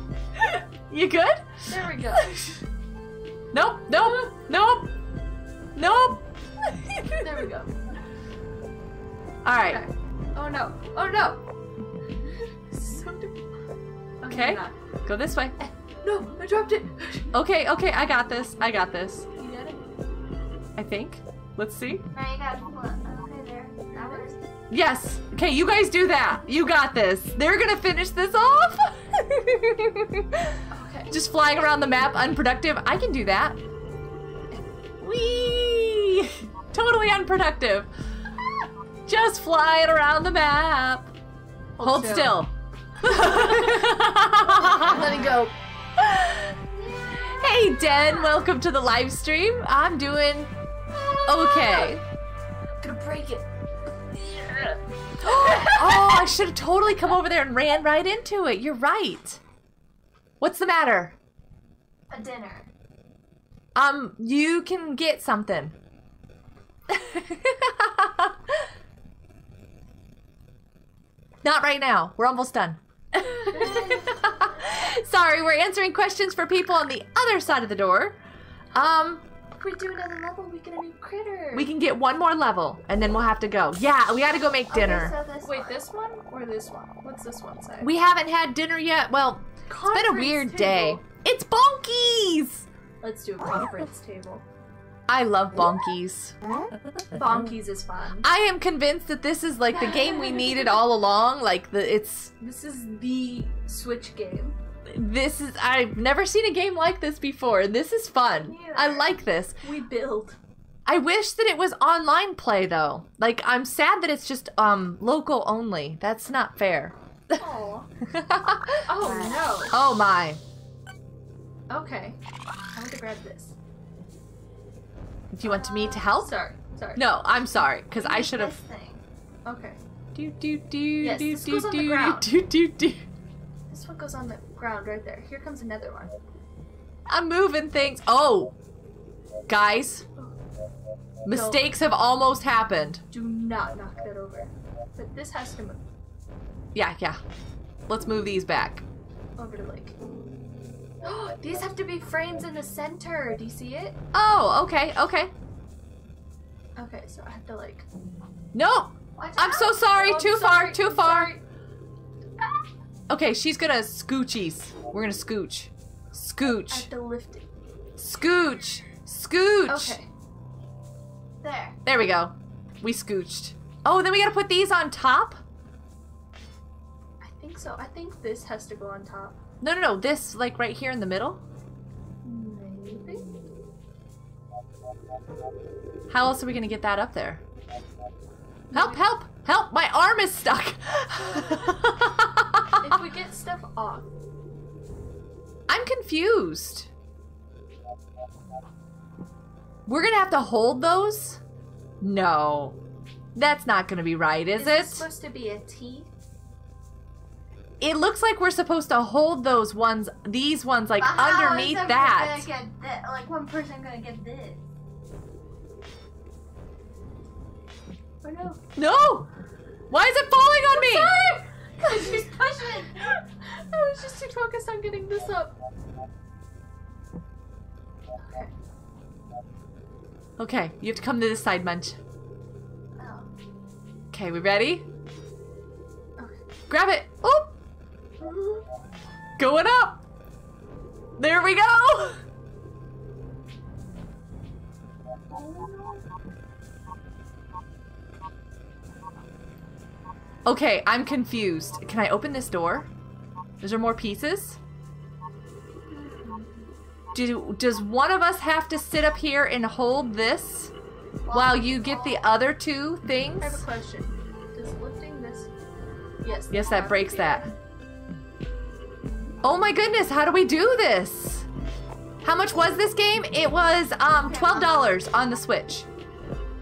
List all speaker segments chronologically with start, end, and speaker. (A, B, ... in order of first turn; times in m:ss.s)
0:00.4-0:02.6 A
0:01.7-0:02.3 B
0:03.5-0:04.9 A
0:05.8-0:07.3 A
0:07.2-0:07.7 B
0:09.4-0:09.8 A
0:09.6-0:11.4 B
0:12.4-0:13.4 B
0:14.2-0:14.7 B
0:14.3-0:15.6 A
0:16.0-0:17.3 B
0:17.3-0:19.3 A
0:19.4-0:19.8 B
0:20.8-0:22.0 A
0:22.1-0:24.4 C
0:23.9-0:24.3 B
0:24.7-0:30.6 A
0:30.7-0:31.1 B
0:31.1-0:33.6 A
0:35.0-0:37.9 A
0:39.0-0:41.1 A
0:41.8-0:42.4 B
0:41.8-0:42.5 A
0:43.0-0:45.2 A
0:43.1-0:43.9 B
0:44.6-0:45.5 B
0:46.0-0:46.6 A
0:47.1-0:50.5 A
0:51.2-0:52.0 A
0:51.5-0:51.9 B
0:52.8-0:53.4 B
0:54.1-0:56.3 B
0:55.2-0:59.4 A
1:00.4-1:01.2 A
1:02.1-1:02.7 C
1:03.7-1:05.7 A
1:06.9-1:08.5 A
1:11.4-1:18.2 A
1:13.4-1:14.2 B
1:18.7-1:19.2 A
1:19.6-1:21.7 B
1:21.5-1:25.1 A
1:24.7-1:25.8 C
1:25.4-1:27.9 B
1:27.8-1:32.7 A
1:29.7-1:31.0 B
1:33.0-1:34.4 B
1:35.1-1:36.4 A
1:37.1-1:38.3 B
1:38.2-1:42.3 A
1:39.8-1:40.6 B
1:42.4-1:44.6 B
1:44.8-1:49.6 A
1:48.5-1:49.0 C
1:49.6-1:50.4 B
1:50.8-1:57.4 A
1:57.4-1:57.9 B
1:58.0-1:58.8 A
1:58.9-1:59.8 B
1:59.7-2:00.4 A
2:01.7-2:02.2 B
2:02.7-2:03.6 B
2:05.3-2:06.4 A
2:05.4-2:06.1 C
2:06.2-2:07.0 B
2:07.0-2:08.6 A
2:08.0-2:09.0 C
2:09.4-2:09.8 B
2:10.1-2:13.0 A
2:11.0-2:12.3 B
2:13.7-2:16.1 B
2:17.1-2:18.5 A
2:19.5-2:20.0 A
2:21.2-2:23.0 A
2:21.3-2:21.6 B
2:23.1-2:25.8 B
2:26.7-2:27.2 A
2:27.9-2:28.8 A
2:29.4-2:30.0 B
2:31.0-2:34.0 B
2:34.1-2:35.3 A
2:36.8-2:37.8 B
2:38.5-2:41.3 A
2:39.2-2:39.7 C
2:39.3-2:41.4 B
2:43.1-2:46.9 A
2:46.7-2:47.5 B
2:48.0-2:50.0 A
2:49.7-2:50.1 B
2:51.4-2:51.8 C
2:51.8-2:55.4 A
2:57.2-2:59.3 B
2:59.6-3:01.4 A
3:02.2-3:03.2 B
3:06.1-3:07.4 A
3:08.7-3:09.0 B
3:08.7-3:12.9 A
3:12.8-3:14.1 B
3:15.7-3:16.9 A
3:19.8-3:21.4 A
3:22.0-3:22.8 A
3:23.3-3:25.0 A
3:24.6-3:26.1 B
3:27.8-3:32.5 A
3:31.0-3:34.6 C
3:38.2-3:38.6 B
3:38.8-3:39.3 A
3:39.9-3:41.2 A
3:40.8-3:45.5 B
3:41.8-3:42.9 C
3:48.2-3:48.5 B
3:50.4-3:52.0 A
3:53.0-3:53.3 C
3:54.1-3:54.8 A
3:56.7-3:57.5 A
3:59.4-4:00.0 A
4:01.2-4:02.2 A
4:10.4-4:12.9 A
4:13.6-4:14.6 A
4:15.9-4:16.6 C
4:17.1-4:20.7 A
4:21.2-4:22.2 C
4:21.3-4:23.6 A
4:23.4-4:25.5 B
4:26.2-4:27.5 B
4:26.5-4:27.4 A
4:29.4-4:31.5 A
4:32.2-4:35.8 A
4:34.2-4:34.9 C